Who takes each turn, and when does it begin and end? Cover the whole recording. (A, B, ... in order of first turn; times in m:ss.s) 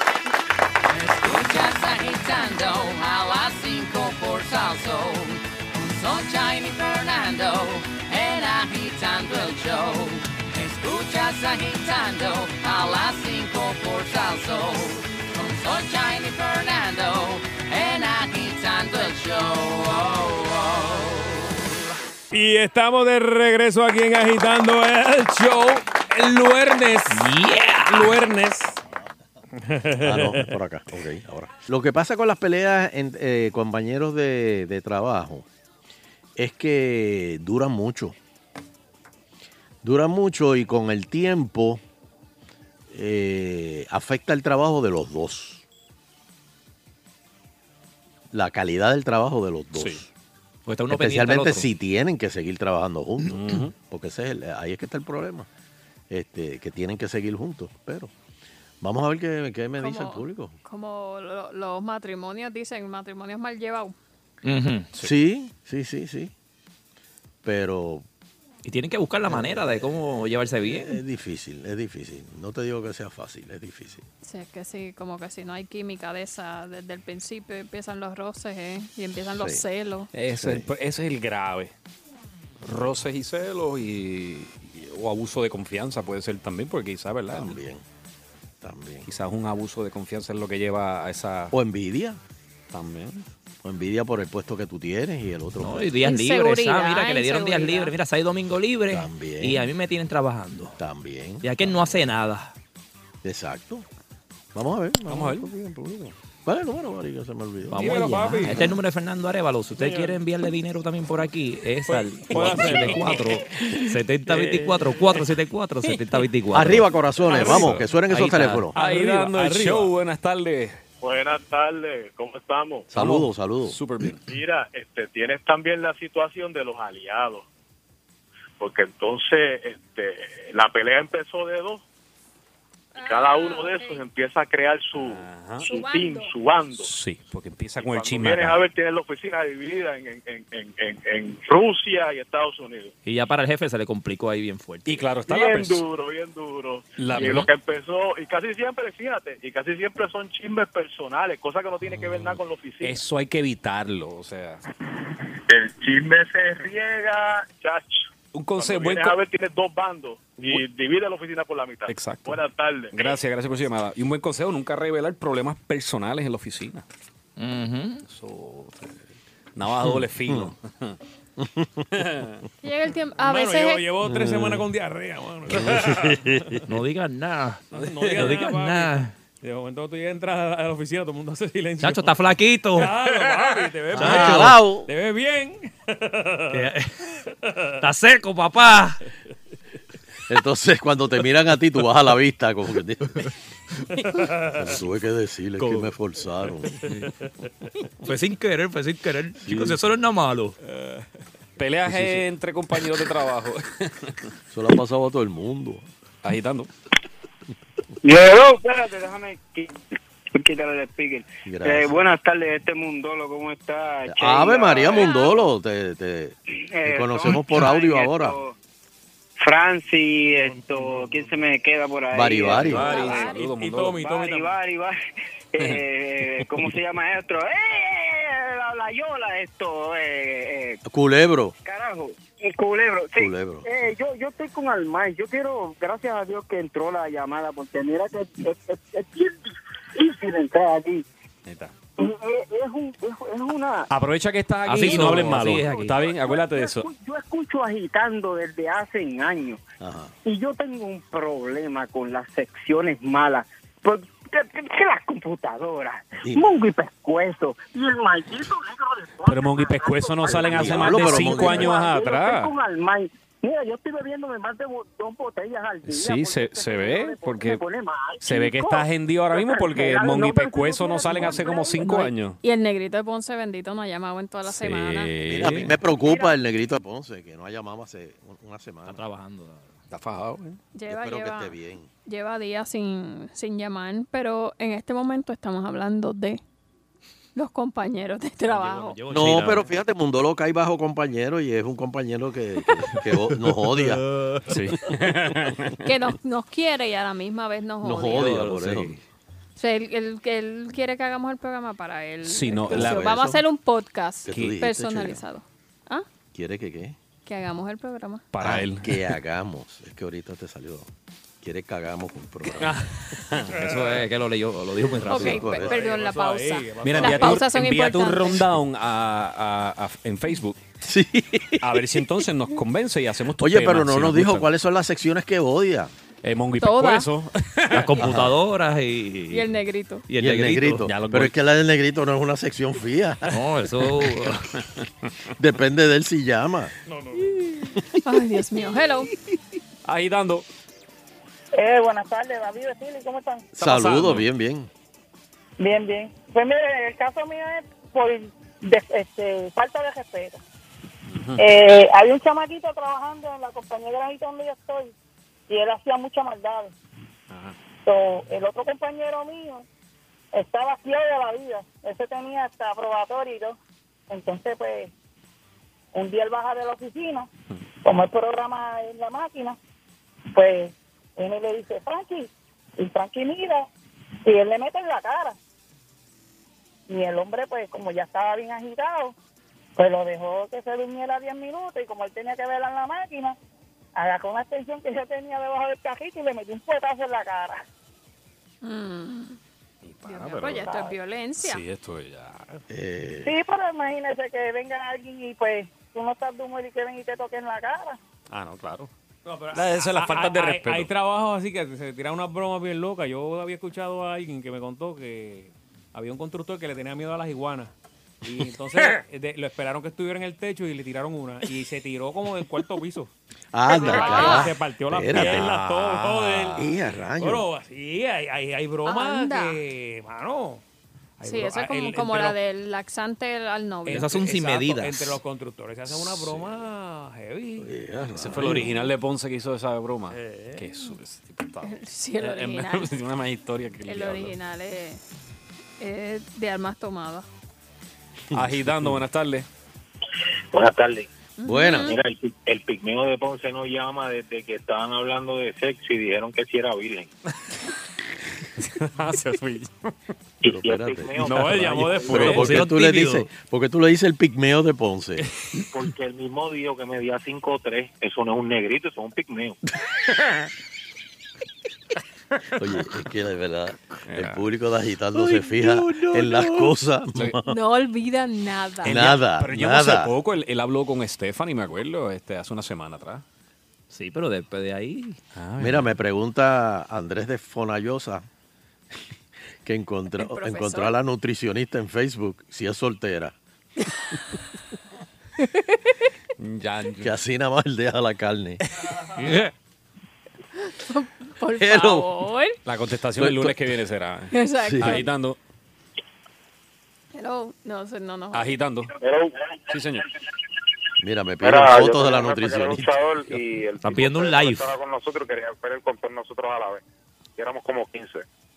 0:01.0-0:21.3 A
0:22.3-0:27.3 B
0:27.1-0:28.2 C
0:27.9-0:28.8 B
0:29.6-0:30.5 B
0:30.0-0:35.5 D
0:36.4-0:38.2 D
0:39.8-0:41.8 D
0:42.9-0:45.6 D
0:48.3-0:50.1 D
0:49.8-0:50.0 E
0:50.7-0:51.7 C
0:50.9-0:55.5 D
0:53.3-0:53.7 E
0:56.1-0:58.1 D
0:58.8-1:00.6 D
0:59.8-1:04.0 F
1:04.4-1:04.9 C
1:05.0-1:06.3 D
1:07.4-1:08.1 D
1:08.6-1:11.0 C
1:09.2-1:09.9 D
1:10.6-1:14.0 D
1:14.2-1:20.1 F
1:19.4-1:19.6 D
1:20.1-1:21.7 E
1:20.4-1:20.7 D
1:22.6-1:27.6 E
1:27.3-1:27.8 D
1:28.6-1:29.1 D
1:29.1-1:31.5 E
1:31.5-1:32.2 D
1:32.7-1:33.3 E
1:33.6-1:35.9 D
1:35.6-1:40.8 C
1:36.0-1:37.9 F
1:38.9-1:39.6 D
1:40.8-1:41.5 D
1:41.4-1:42.5 C
1:43.2-1:43.8 D
1:44.5-1:45.8 D
1:45.1-1:46.1 E
1:46.4-1:48.0 D
1:47.7-1:58.7 C
1:47.8-1:48.7 B
1:49.8-1:50.2 B
1:51.9-1:53.4 B
1:56.5-1:58.7 D
1:57.3-1:57.7 B
1:57.4-1:57.9 E
1:58.8-1:59.9 B
1:58.8-2:00.8 E
2:01.0-2:02.9 G
2:02.9-2:03.8 D
2:02.9-2:04.2 E
2:04.3-2:07.4 G
2:08.6-2:11.8 G
2:13.0-2:14.0 F
2:13.0-2:16.9 G
2:14.9-2:15.7 E
2:15.6-2:16.3 F
2:16.7-2:18.7 E
2:17.8-2:22.9 G
2:23.1-2:25.1 C
2:24.9-2:25.8 E
2:25.3-2:33.0 G
2:27.0-2:27.5 E
2:32.0-2:32.3 E
2:32.8-2:34.6 E
2:35.6-2:38.0 G
2:38.3-2:39.2 E
2:38.6-2:42.9 G
2:41.9-2:46.9 E
2:47.4-2:48.0 C
2:48.1-2:49.0 E
2:49.6-2:51.0 E
2:49.9-2:50.5 D
2:51.4-2:52.0 D
2:52.0-2:52.4 E
2:52.6-2:53.8 F
2:53.2-2:56.6 B
2:54.0-2:54.6 D
2:55.5-2:56.6 D
2:56.7-2:59.1 C
2:57.7-3:02.2 B
2:58.0-2:58.4 E
3:01.8-3:03.0 C
3:02.7-3:06.6 B
3:04.0-3:04.6 C
3:04.0-3:04.9 D
3:06.5-3:06.9 C
3:07.8-3:09.0 C
3:10.3-3:13.2 D
3:14.5-3:16.7 D
3:15.6-3:15.9 C
3:18.0-3:20.6 C
3:21.6-3:24.2 E
3:21.9-3:22.2 D
3:24.5-3:25.9 D
3:26.2-3:26.7 E
3:28.0-3:29.7 H
3:30.4-3:35.2 H
3:31.4-3:31.9 D
3:34.1-3:38.4 D
3:34.9-3:35.4 F
3:36.7-3:38.6 H
3:39.4-3:43.3 H
3:40.5-3:41.2 B
3:42.1-3:42.9 D
3:42.4-3:44.0 E
3:42.7-3:43.4 F
3:43.0-3:44.6 B
3:44.0-3:45.0 H
3:45.5-3:50.8 H
3:50.8-3:51.6 D
3:51.6-4:01.0 H
3:53.2-3:53.6 D
4:01.5-4:01.8 E
4:02.0-4:03.9 H
4:03.9-4:06.9 E
4:04.6-4:06.0 C
4:04.8-4:09.6 H
4:09.8-4:10.1 D
4:10.2-4:32.1 H
4:19.3-4:22.5 E
4:20.4-4:21.8 D
4:25.9-4:27.6 E
4:28.2-4:32.4 E
4:32.4-4:35.1 F
4:34.4-4:35.8 E
4:35.3-4:39.0 D
4:36.0-4:36.4 H
4:38.8-4:39.8 C
4:39.9-4:41.9 D
4:40.7-4:41.5 F
4:42.0-4:46.4 F
4:47.4-4:49.0 F
4:48.5-4:49.7 C
4:49.1-4:54.0 D
4:53.7-4:54.4 C
4:54.5-4:55.8 E
4:55.8-4:58.3 F
4:57.8-4:59.0 D
4:58.1-4:58.9 C
4:59.6-5:06.1 F
5:02.2-5:03.2 E
5:02.7-5:03.4 D
5:04.2-5:05.2 D
5:06.3-5:07.0 D
5:07.2-5:08.2 F
5:08.3-5:09.1 E
5:08.4-5:10.9 D
5:11.4-5:12.7 D
5:12.7-5:13.6 E
5:13.5-5:15.6 C
5:15.1-5:18.4 F
5:15.2-5:15.9 D
5:15.6-5:17.5 B
5:16.8-5:20.6 E
5:20.8-5:21.6 D
5:21.6-5:24.5 E
5:23.4-5:25.9 D
5:26.2-5:28.1 E
5:26.6-5:27.1 F
5:27.7-5:29.4 C
5:28.0-5:28.3 D
5:29.3-5:30.0 F
5:30.1-5:30.9 C
5:30.2-5:33.4 D
5:30.8-5:31.3 E
5:33.3-5:34.5 C
5:35.4-5:36.7 D
5:36.9-5:37.2 B
5:38.0-5:39.1 F
5:39.8-5:40.4 E
5:41.6-5:43.5 I
5:43.6-5:44.7 D
5:43.6-5:44.3 E
5:45.6-5:50.4 I
5:51.1-5:51.5 E
5:51.4-5:54.9 I
5:55.5-5:56.7 I
5:57.3-5:57.6 E
5:57.9-5:59.7 I
6:00.3-6:03.6 I
6:04.1-6:04.9 I
6:05.9-6:07.3 I
6:07.8-6:09.6 I
6:10.3-6:13.7 I
6:14.2-6:15.4 I
6:16.9-6:19.2 I
6:19.8-6:23.4 I
6:24.0-6:27.6 I
6:28.6-6:29.4 F
6:29.8-6:30.8 E
6:30.0-6:31.6 F
6:31.4-6:32.6 E
6:32.7-6:33.3 D
6:33.2-6:38.0 I
6:38.3-6:38.9 E
6:39.3-6:47.7 B
6:39.5-6:40.9 E
6:48.2-6:53.1 B
6:53.5-6:55.6 D
6:53.7-6:56.7 B
6:53.8-6:54.5 F
6:55.1-6:56.8 E
6:56.6-6:57.5 D
6:57.2-7:00.6 B
6:58.9-6:59.6 F
7:01.2-7:02.4 B
7:01.2-7:04.1 F
7:03.9-7:07.7 B
7:03.9-7:05.2 C
7:05.9-7:06.5 E
7:07.6-7:08.7 D
7:08.2-7:14.4 E
7:10.1-7:10.7 B
7:11.6-7:12.9 F
7:13.8-7:15.0 F
7:15.8-7:17.3 F
7:18.3-7:19.0 D
7:18.3-7:19.5 E
7:20.5-7:21.1 J
7:21.4-7:22.0 F
7:21.4-7:22.0 D
7:21.8-7:27.1 J
7:28.6-7:29.9 E
7:30.4-7:32.2 J
7:30.4-7:35.2 D
7:31.2-7:32.5 E
7:32.2-7:32.4 B
7:32.2-7:33.3 C
7:35.7-7:39.6 J
7:42.6-7:47.6 D
7:44.1-7:44.5 E
7:45.2-7:46.7 C
7:47.4-7:49.0 F
7:48.8-7:50.1 D
7:48.8-7:53.2 E
7:53.9-7:55.2 C
7:55.4-7:56.0 E
7:55.6-7:58.3 D
7:59.6-8:03.4 D
8:00.2-8:00.9 F
8:06.4-8:07.1 E
8:07.0-8:08.6 D
8:10.7-8:12.6 F
8:11.6-8:12.1 D
8:12.7-8:15.4 E
8:13.2-8:13.6 D
8:14.3-8:15.1 F
8:14.6-8:15.0 D
8:17.1-8:18.5 F
8:18.3-8:18.9 E
8:19.0-8:19.3 K
8:19.7-8:20.1 E
8:21.0-8:23.4 D
8:21.4-8:26.8 K
8:23.8-8:24.7 C
8:27.4-8:28.2 K